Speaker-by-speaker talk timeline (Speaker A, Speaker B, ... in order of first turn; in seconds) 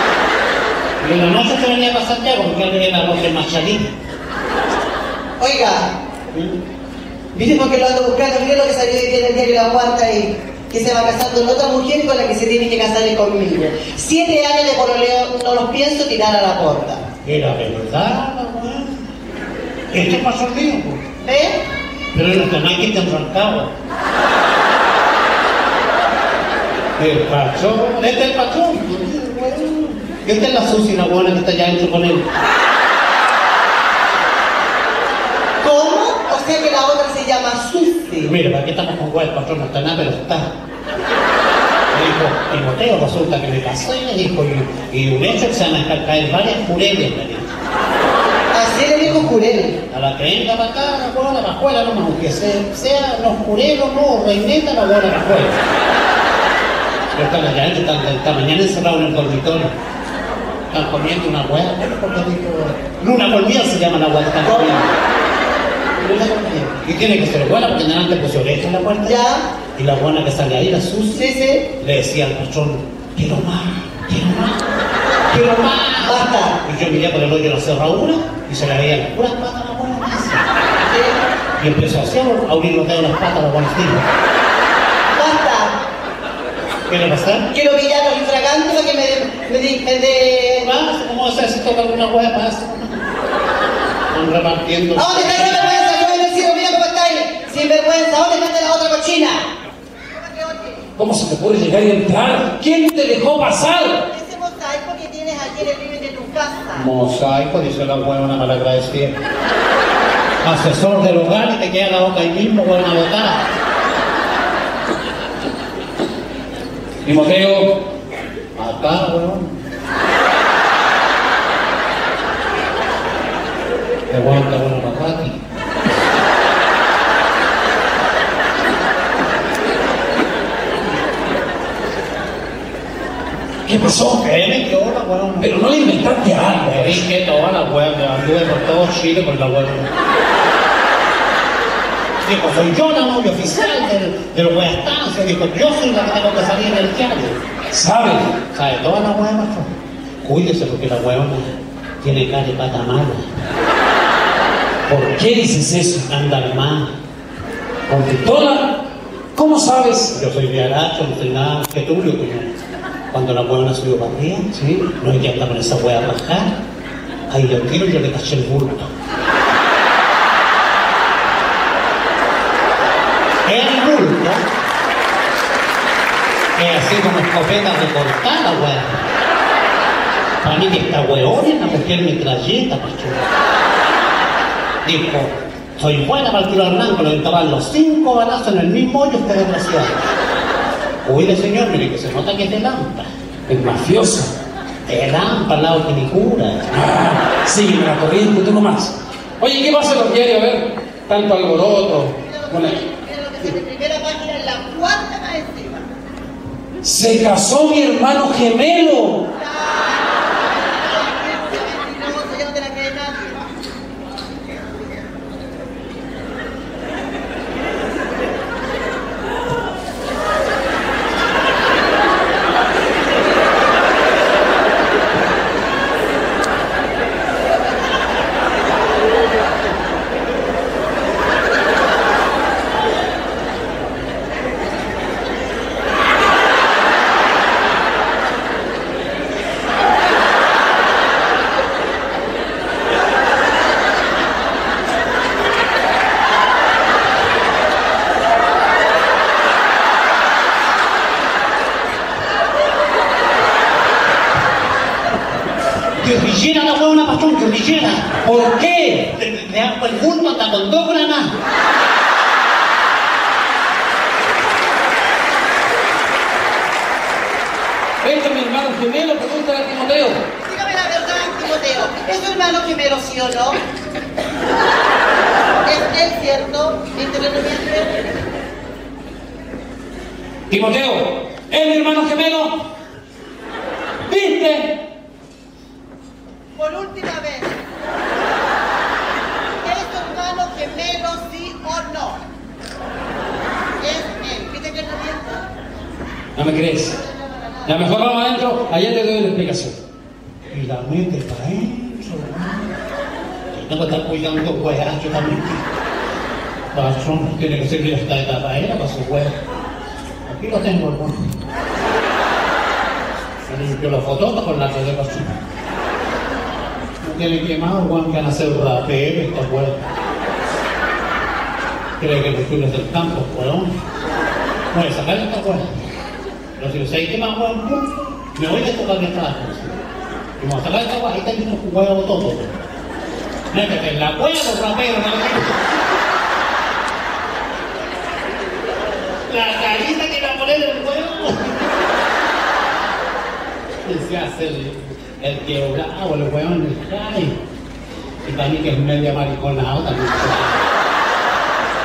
Speaker A: 1.0-3.8, 17.2-19.0, 19.9-21.0, 22.1-23.7, 27.0-32.3, 38.2-40.4, 41.9-47.6, 49.9-55.6, 57.1-59.7, 60.7-65.0, 66.0-69.2, 69.7-71.2, 71.7-74.6, 75.3-80.4, 81.6-84.0, 86.9-87.5, 90.6-93.0, 94.1-95.7, 106.8-109.1, 110.4-113.4, 118.6-119.5, 124.1-125.4, 133.7-135.6, 136.1-139.9, 142.2-147.4, 148.5-149.7, 150.2-153.3, 156.1-156.9, 160.1-162.5, 163.1-164.4, 165.0-166.5, 167.3-168.9, 173.4-174.4, 176.6-178.9, 180.4-183.2, 184.8-190.1, 191.0-193.1, 194.9-196.6, 256.0-258.1, 259.2-261.3, 300.5-302.7, 303.5-305.6, 306.7-309.3, 310.3-311.2, 313.5-315.4, 317.0-319.8, 322.0-323.7, 324.7-325.6, 326.6-329.8, 330.4-332.6, 333.5-335.7, 339.3-341.5, 343.9-347.4, 348.2-350.5
Speaker B: 5.4-5.8, 7.3-17.0, 21.2-21.6, 35.6-38.3, 48.5-49.8, 69.1-69.4, 71.2-71.7, 76.0-76.6, 80.9-81.2, 85.1-85.7, 87.5-90.7, 95.0-99.5, 100.1-100.8, 104.1-106.9, 202.3-205.9, 209.4-210.1, 210.8-213.4, 270.4-273.6, 275.6-278.2, 286.6-287.6, 289.6-292.2, 293.8-295.4, 297.2-297.6
Speaker C: 101.0-104.0, 117.1-117.8, 133.7-134.2, 135.4-137.0, 147.7-148.3, 154.9-156.1, 157.9-158.8, 159.3-160.1, 164.5-164.9, 193.5-194.3, 196.7-202.7, 206.8-209.3, 258.2-259.1, 268.0-270.2, 280.5-282.6, 284.1-284.8, 296.4-297.0, 297.7-299.8